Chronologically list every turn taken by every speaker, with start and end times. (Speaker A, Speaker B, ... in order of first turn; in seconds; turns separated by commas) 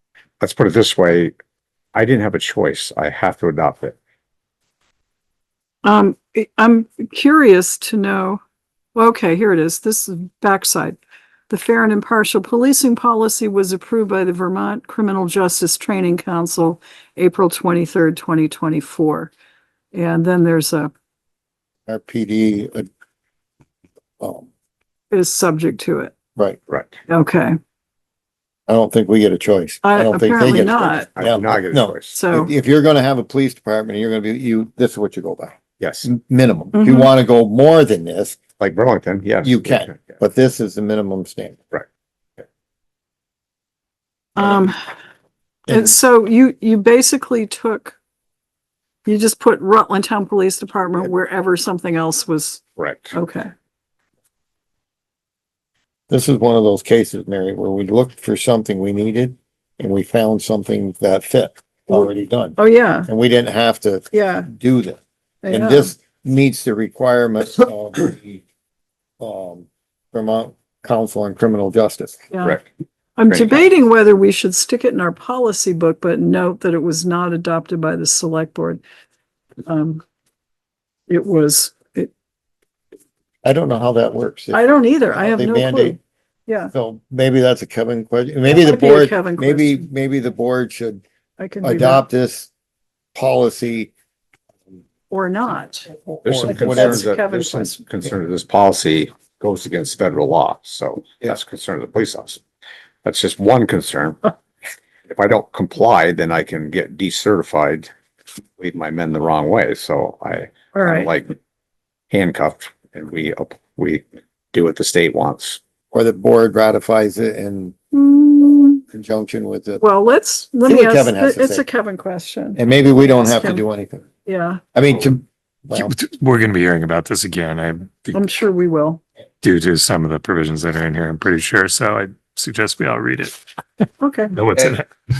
Speaker A: 0.4-1.3, Speaker A: 1.9-4.0, Speaker B: 5.8-8.4, Speaker B: 8.9-19.3, Speaker B: 19.9-20.9, Speaker C: 21.9-22.9, Speaker C: 24.2-24.5, Speaker B: 25.1-26.1, Speaker A: 26.7-27.0, Speaker B: 27.1-27.6, Speaker C: 28.7-38.4, Speaker B: 29.8-31.1, Speaker A: 31.1-32.2, Speaker B: 32.1-32.5, Speaker A: 35.8-36.1, Speaker B: 36.7-37.1, Speaker A: 38.6-40.2, Speaker C: 39.4-41.6, Speaker B: 44.4-44.7, Speaker B: 45.7-48.0, Speaker B: 49.0-53.5, Speaker A: 52.8-53.1, Speaker C: 56.1-68.4, Speaker B: 61.9-63.1, Speaker B: 64.1-64.5, Speaker B: 65.4-65.9, Speaker C: 69.2-72.2, Speaker B: 72.3-72.6, Speaker A: 72.4-72.6, Speaker B: 73.2-78.8, Speaker A: 73.3-73.6, Speaker B: 79.7-80.0, Speaker B: 81.1-82.1, Speaker C: 83.4-86.0, Speaker B: 84.5-86.7, Speaker C: 86.7-91.0, Speaker B: 88.5-89.9, Speaker B: 91.4-92.0, Speaker C: 91.6-92.5, Speaker C: 93.1-93.9, Speaker B: 95.1-95.8, Speaker C: 96.0-97.0, Speaker A: 96.2-102.4, Speaker B: 96.4-97.8, Speaker A: 103.0-104.2, Speaker A: 105.1-107.9, Speaker A: 108.6-111.3, Speaker B: 110.7-111.1, Speaker A: 112.1-115.6, Speaker C: 115.9-117.7, Speaker B: 117.9-118.8, Speaker C: 118.9-119.8, Speaker B: 119.8-122.6, Speaker C: 120.7-121.6, Speaker C: 122.5-124.1, Speaker B: 123.2-123.6, Speaker B: 124.2-124.6, Speaker C: 124.7-125.9, Speaker D: 125.7-128.2, Speaker B: 128.1-129.0, Speaker D: 129.4-133.4, Speaker B: 134.0-134.4, Speaker D: 134.3-134.9